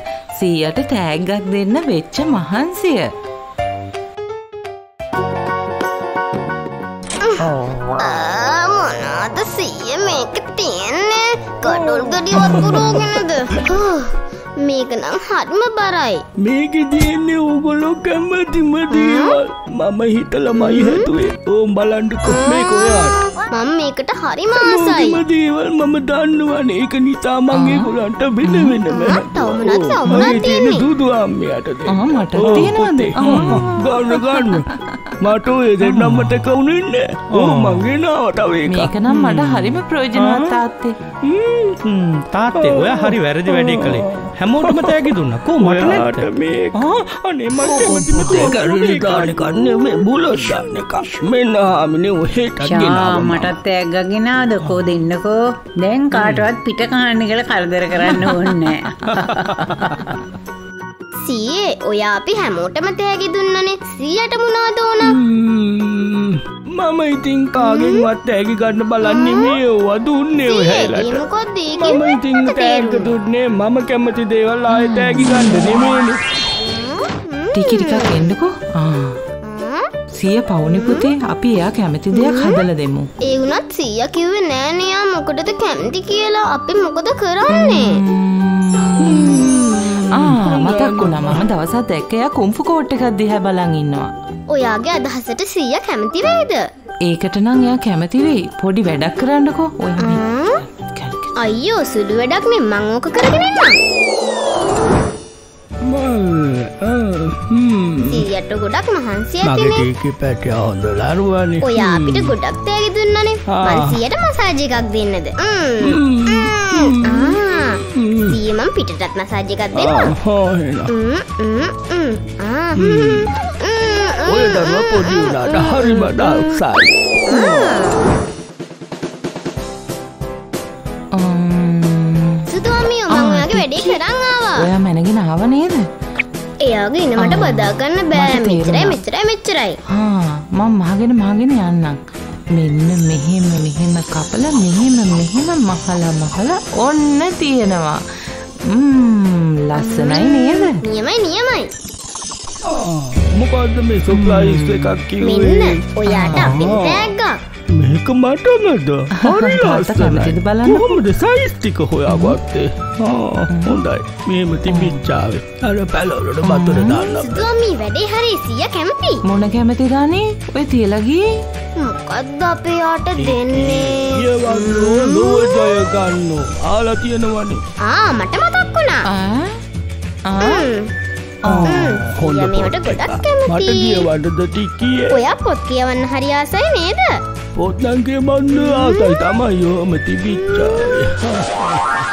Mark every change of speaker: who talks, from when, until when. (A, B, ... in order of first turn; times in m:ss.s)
0:00.4-0:03.1 A
0:07.2-0:16.2 B
0:12.3-0:12.9 A
0:12.4-0:13.2 C
0:16.4-0:23.2 C
0:18.9-0:19.4 B
0:20.6-0:21.0 B
0:22.2-0:25.2 B
0:24.5-0:38.9 C
0:27.5-0:28.8 A
0:28.9-0:30.9 B
0:31.9-0:35.1 A
0:32.4-0:33.8 D
0:35.8-0:36.4 D
0:37.3-0:37.9 D
0:38.6-0:41.0 A
0:39.1-0:40.6 D
0:41.2-0:41.8 C
0:41.8-0:49.4 D
0:42.5-0:46.8 C
0:47.6-0:53.5 C
0:52.6-0:58.9 E
0:56.2-0:56.4 D
0:59.2-1:00.0 D
1:01.2-1:05.2 B
1:05.0-1:16.2 C
1:07.6-1:08.1 B
1:09.0-1:09.6 B
1:10.4-1:13.2 B
1:14.7-1:15.8 A
1:16.6-1:18.4 B
1:17.5-1:19.2 A
1:19.4-1:19.9 B
1:20.1-1:23.1 A
1:20.6-1:21.1 B
1:22.1-1:22.6 B
1:23.2-1:28.0 B
1:27.5-1:29.6 A
1:29.0-1:31.4 C
1:30.1-1:34.1 A
1:34.5-1:36.6 B
1:37.0-1:41.3 A
1:40.0-1:40.6 B
1:41.4-1:43.8 B
1:45.8-1:48.3 C
1:48.1-1:49.9 B
1:49.4-1:52.3 C
1:51.6-2:00.1 B
1:53.5-1:54.0 C
1:55.8-1:58.4 C
1:59.7-2:00.9 C
2:00.9-2:06.6 B
2:02.8-2:03.3 C
2:04.2-2:06.9 C
2:07.3-2:08.1 B
2:11.1-2:12.5 A
2:12.5-2:14.7 B
2:13.1-2:14.0 A
2:14.6-2:15.9 A
2:16.6-2:19.8 B
2:17.2-2:19.0 A
2:19.9-2:22.0 A
2:22.5-2:30.8 A
2:29.7-2:31.7 B
2:32.6-2:37.1 C
2:34.1-2:35.0 A
2:35.2-2:37.4 B
2:36.0-2:36.6 A
2:37.7-2:47.5 C
2:39.2-2:41.0 A
2:42.1-2:42.4 A
2:43.5-2:43.8 A
2:44.7-2:45.0 A
2:46.4-2:47.0 A
2:47.1-2:49.2 B
2:49.2-2:51.2 A
2:51.8-2:55.7 B
2:53.2-2:57.6 C
2:57.8-2:59.1 B
2:59.1-2:59.6 A
3:00.3-3:00.6 A
3:00.4-3:00.9 B
3:01.5-3:02.0 A
3:01.5-3:05.2 C
3:01.6-3:04.1 B
3:05.1-3:07.2 B
3:07.5-3:12.0 C
3:08.7-3:09.1 B
3:10.5-3:11.0 B